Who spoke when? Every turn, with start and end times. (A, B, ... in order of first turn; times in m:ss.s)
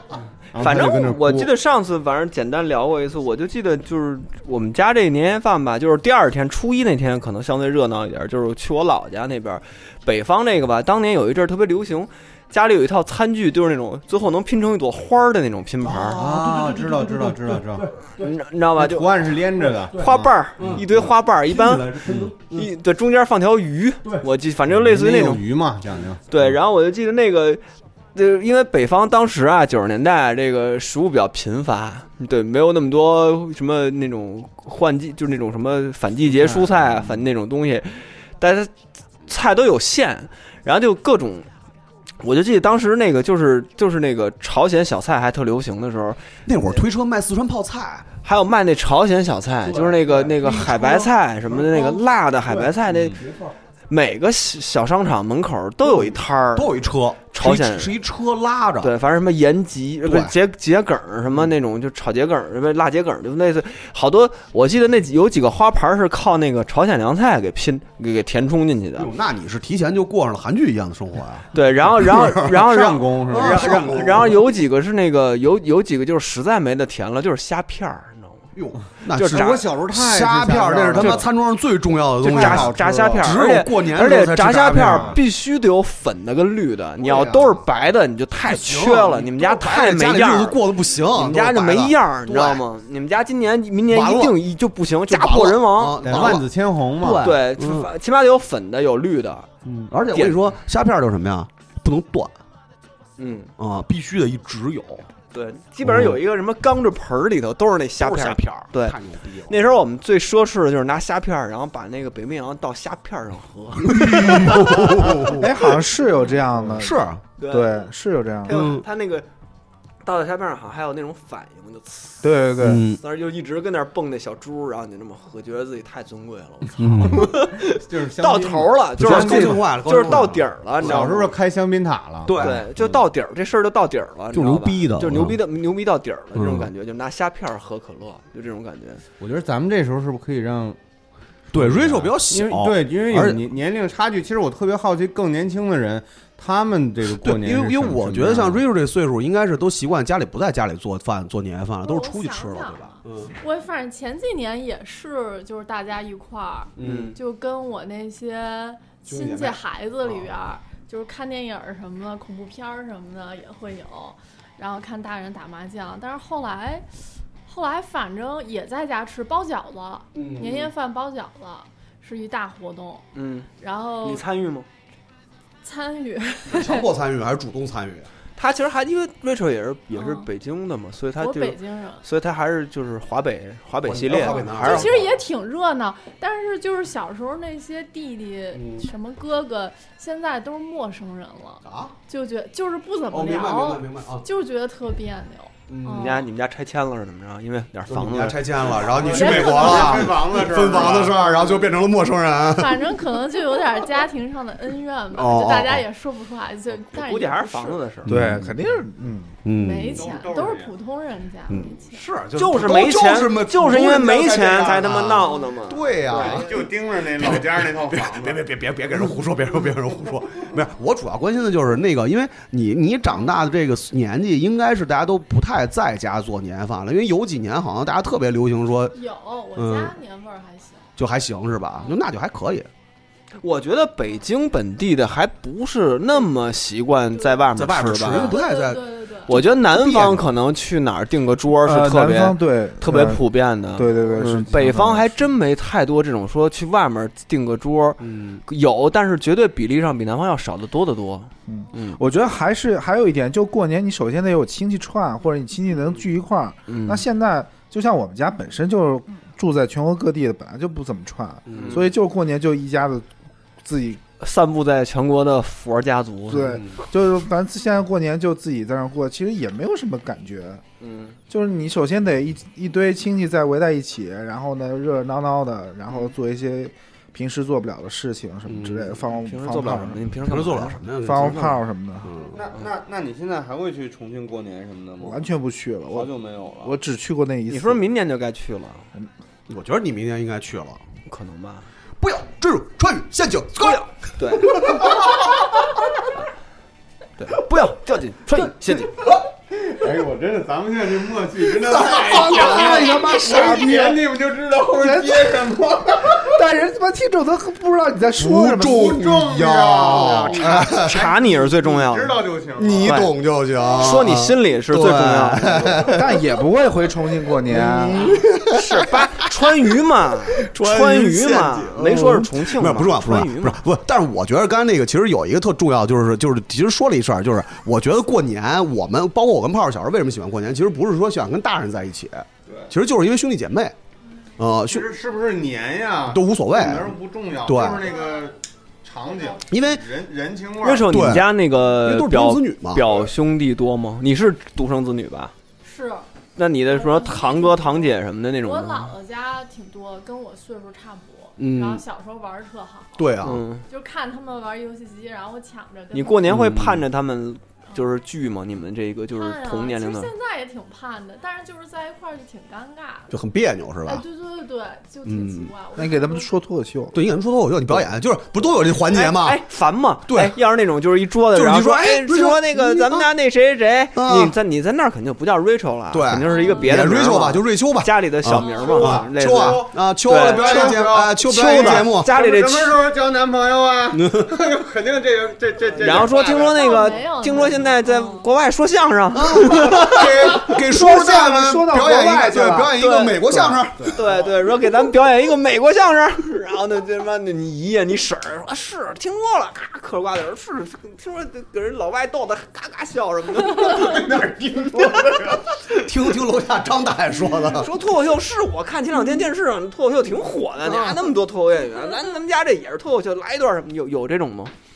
0:00.5-0:01.5 A
0:00.6-0:16.2 B
0:16.1-0:17.9 A
0:18.2-0:19.3 B
0:18.8-0:21.1 A
0:19.9-0:25.4 B
0:20.6-0:20.8 C
0:21.7-0:22.3 C
0:22.0-0:22.3 A
0:24.7-0:26.6 A
0:26.3-0:27.6 B
0:28.1-0:38.7 B
0:36.3-0:36.7 A
0:39.3-0:41.5 B
0:42.2-0:46.2 B
0:46.4-0:48.0 C
0:48.2-0:53.3 B
0:49.8-0:51.1 C
0:53.9-0:56.8 B
0:55.8-0:58.9 C
0:57.3-0:58.0 B
0:58.8-1:09.1 B
1:00.0-1:00.4 C
1:09.0-1:11.5 C
1:11.5-1:18.4 B
1:12.0-1:12.4 C
1:12.1-1:14.4 A
1:13.3-1:14.4 C
1:18.5-1:25.2 C
1:19.1-1:19.6 B
1:19.2-1:21.3 A
1:21.0-1:21.2 B
1:22.2-1:23.4 A
1:22.3-1:36.4 B
1:24.8-1:25.2 A
1:27.0-1:27.6 C
1:28.4-1:32.6 C
1:33.9-1:34.4 C
1:35.1-1:37.9 C
1:36.0-1:37.2 A
1:37.0-1:39.5 B
1:39.6-1:42.4 C
1:40.1-1:40.4 B
1:43.2-1:43.5 B
1:43.6-1:45.0 C
1:45.3-1:55.0 B
1:48.0-1:49.6 C
1:53.9-1:55.5 C
1:54.5-1:58.6 D
1:56.8-1:57.2 C
1:57.4-1:57.9 B
1:58.4-1:59.3 B
1:58.5-1:58.8 C
2:00.0-2:02.3 B
2:02.2-2:02.8 D
2:02.6-2:03.0 C
2:03.0-2:11.4 B
2:06.8-2:07.3 C
2:06.9-2:13.0 A
2:09.0-2:11.1 C
2:12.2-2:12.6 C
2:12.4-2:19.0 B
2:14.3-2:15.4 C
2:16.4-2:16.7 C
2:19.2-2:20.8 A
2:21.5-2:23.4 C
2:21.5-2:28.6 A
2:27.1-2:33.3 C
2:31.8-2:46.9 E
2:36.8-2:37.2 C
2:36.8-2:37.2 B
2:39.0-2:40.3 C
2:47.4-2:53.0 E
2:50.2-2:50.5 C
2:53.1-2:53.5 B
2:53.6-2:54.2 E
2:54.0-2:54.7 B
2:55.6-2:56.9 E
2:56.5-2:58.1 C
2:58.4-3:04.9 B
2:59.9-3:00.3 E
3:01.2-3:02.0 E
3:03.9-3:05.2 C
3:04.1-3:16.2 E
3:08.6-3:08.8 C
3:11.6-3:12.0 C
3:13.1-3:14.3 C
3:15.7-3:16.2 C
3:15.9-3:18.8 B
3:17.9-3:22.8 C
3:18.8-3:21.7 A
3:19.0-3:20.1 E
3:22.5-3:27.8 E
3:25.1-3:25.8 C
3:26.7-3:28.1 B
3:28.0-3:28.6 C
3:28.0-3:29.4 D
3:29.4-3:30.1 C
3:29.5-3:32.0 E
3:30.0-3:30.7 A
3:31.5-3:36.6 C
3:32.4-3:36.5 B
3:36.1-3:38.4 A
3:37.2-3:49.0 C
3:48.9-3:50.9 E
3:49.6-3:50.0 C
3:51.0-3:52.7 C
3:53.4-3:58.4 B
3:57.2-3:57.5 E
3:57.6-4:00.3 C
3:58.0-3:59.3 E
3:59.3-4:12.0 B
4:01.6-4:03.2 D
4:03.7-4:05.3 D
4:08.0-4:08.4 C
4:11.5-4:23.1 D
4:16.7-4:17.0 B
4:21.5-4:21.8 C
4:21.5-4:21.9 B
4:23.6-4:24.0 D
4:24.2-4:26.6 B
4:26.3-4:30.6 D
4:26.5-4:26.8 C
4:30.8-4:31.2 B
4:31.3-4:40.0 D
4:38.5-4:38.9 C
4:39.0-4:41.6 B
4:40.2-4:42.4 C
4:41.0-4:42.1 D
4:42.3-4:45.2 A
4:45.0-4:47.8 D
4:45.9-4:46.8 A
4:47.5-4:48.9 B
4:49.5-4:50.8 C
4:51.1-4:51.7 B
4:52.0-4:53.8 C
4:53.6-4:54.9 B
4:54.4-4:54.8 C
4:57.2-4:59.0 B
4:59.5-5:06.3 A
5:01.6-5:02.8 C
5:01.9-5:04.0 D
5:04.8-5:05.4 D
5:06.0-5:09.0 D
5:08.2-5:11.0 C
5:08.4-5:13.0 A
5:10.4-5:12.2 B
5:12.6-5:16.1 C
5:12.8-5:13.1 B
5:13.7-5:15.9 B
5:15.9-5:18.2 D
5:17.5-5:19.3 C
5:18.4-5:23.6 B
5:20.4-5:33.7 C
5:34.4-5:34.9 C
5:34.7-5:41.2 A
5:36.1-5:37.9 C
5:37.9-5:38.3 E
5:39.1-5:39.4 E
5:39.5-5:39.8 C
5:40.6-5:45.3 B
5:40.9-5:43.1 C
5:45.6-5:46.1 E
5:46.4-5:48.9 B
5:46.7-5:53.1 E
5:51.4-5:51.8 C
5:53.0-5:53.4 C
5:53.2-5:53.6 B
5:53.7-5:56.4 E
5:55.9-6:00.1 B
5:56.3-5:56.8 C
5:59.1-6:03.1 E
6:03.1-6:04.0 C
6:03.8-6:06.3 E
6:05.0-6:05.5 C
6:05.8-6:07.0 D
6:06.9-6:09.4 C
6:08.9-6:22.8 B
6:10.1-6:10.4 C
6:11.3-6:13.1 C
6:14.0-6:14.4 C
6:15.9-6:22.1 C
6:16.3-6:16.8 E
6:18.4-6:19.0 E
6:18.6-6:19.7 A
6:20.3-6:27.0 A
6:23.9-6:24.4 C
6:25.8-6:30.1 B
6:26.4-6:28.3 E
6:29.1-6:34.0 C
6:30.6-6:32.8 D
6:32.8-6:33.2 B
6:33.3-6:33.6 D
6:33.9-6:44.2 B
6:43.7-6:45.4 A
6:44.7-6:45.8 B
6:45.7-6:47.7 C
6:47.5-6:54.5 B